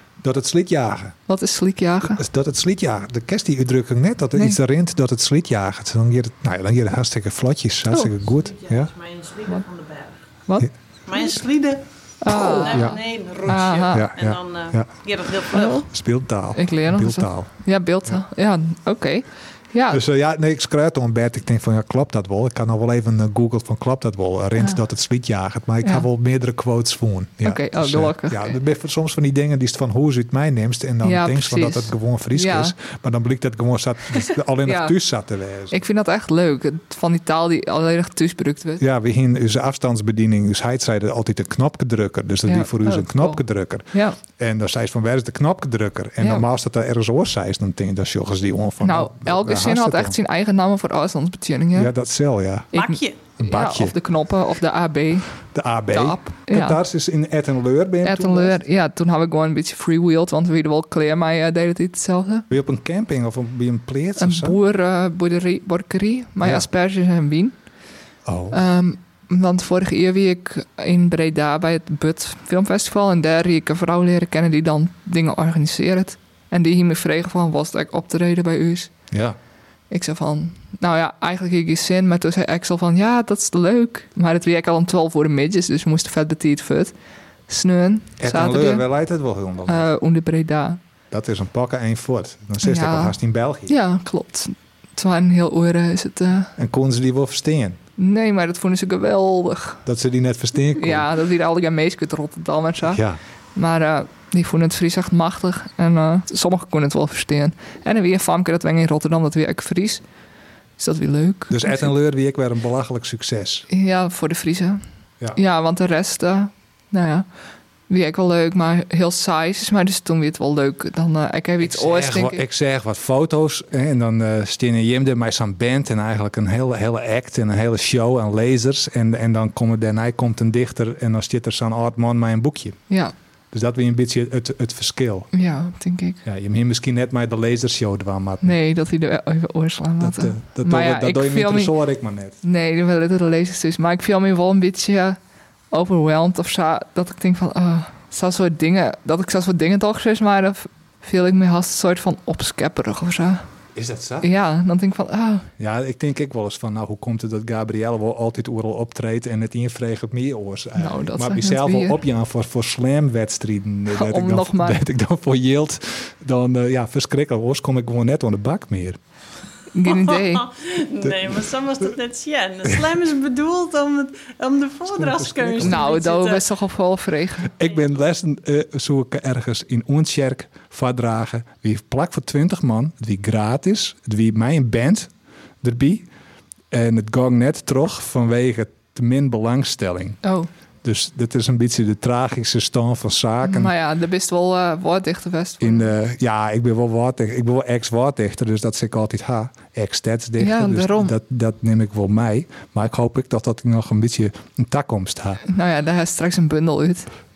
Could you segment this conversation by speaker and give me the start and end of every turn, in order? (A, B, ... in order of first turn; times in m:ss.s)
0:00.2-0:01.2 A
0:01.3-0:02.2 B
0:02.0-0:08.9 A
0:08.4-0:10.2 C
0:11.1-0:15.9 C
0:12.2-0:14.1 B
0:12.7-0:13.0 A
0:13.5-0:14.9 A
0:15.5-0:15.9 B
0:15.9-0:17.5 A
0:16.5-0:20.0 B
0:19.9-0:35.8 A
0:27.4-0:28.6 B
0:31.0-0:32.7 B
0:34.6-0:34.9 B
0:35.7-0:38.8 B
0:38.8-0:50.2 A
0:42.5-0:44.2 B
0:46.2-0:46.4 B
0:48.8-0:51.9 B
0:51.7-0:52.7 A
0:52.7-0:53.2 C
0:52.7-0:56.8 B
0:53.4-0:54.0 A
0:55.5-0:58.6 A
0:58.0-1:02.5 B
1:02.5-1:04.6 A
1:04.2-1:07.6 B
1:06.4-1:06.7 A
1:08.2-1:08.6 A
1:08.5-1:18.9 B
1:19.1-1:19.4 A
1:19.9-1:26.9 B
1:27.5-1:28.8 B
1:28.2-1:29.9 A
1:29.7-1:30.8 B
1:31.1-1:33.7 A
1:32.6-1:33.2 B
1:33.7-1:36.5 B
1:36.6-1:37.8 A
1:38.0-1:39.8 B
1:39.9-1:41.1 A
1:40.8-1:43.0 B
1:42.8-1:43.2 A
1:43.6-1:50.0 B
1:50.8-1:51.9 B
1:51.5-1:53.7 A
1:53.7-1:54.8 B
1:55.3-1:57.3 B
1:57.9-2:02.4 B
2:01.6-2:12.8 A
2:13.5-2:15.3 A
2:15.3-2:16.2 B
2:16.2-2:18.6 A
2:18.4-2:21.7 B
2:20.0-2:22.4 A
2:22.4-2:25.2 B
2:25.7-2:33.5 B
2:33.7-2:34.3 A
2:34.2-2:35.5 B
2:35.6-2:49.0 A
2:40.8-2:42.0 B
2:43.9-2:44.8 B
2:49.7-2:50.5 B
2:49.8-2:56.5 C
2:54.9-2:55.8 A
2:55.6-2:57.5 B
2:57.6-3:05.1 A
3:05.6-3:06.1 A
3:06.7-3:10.2 A
3:10.2-3:10.5 B
3:10.8-3:13.7 A
3:13.4-3:15.9 B
3:15.6-3:25.4 A
3:20.4-3:21.2 B
3:25.4-3:27.1 B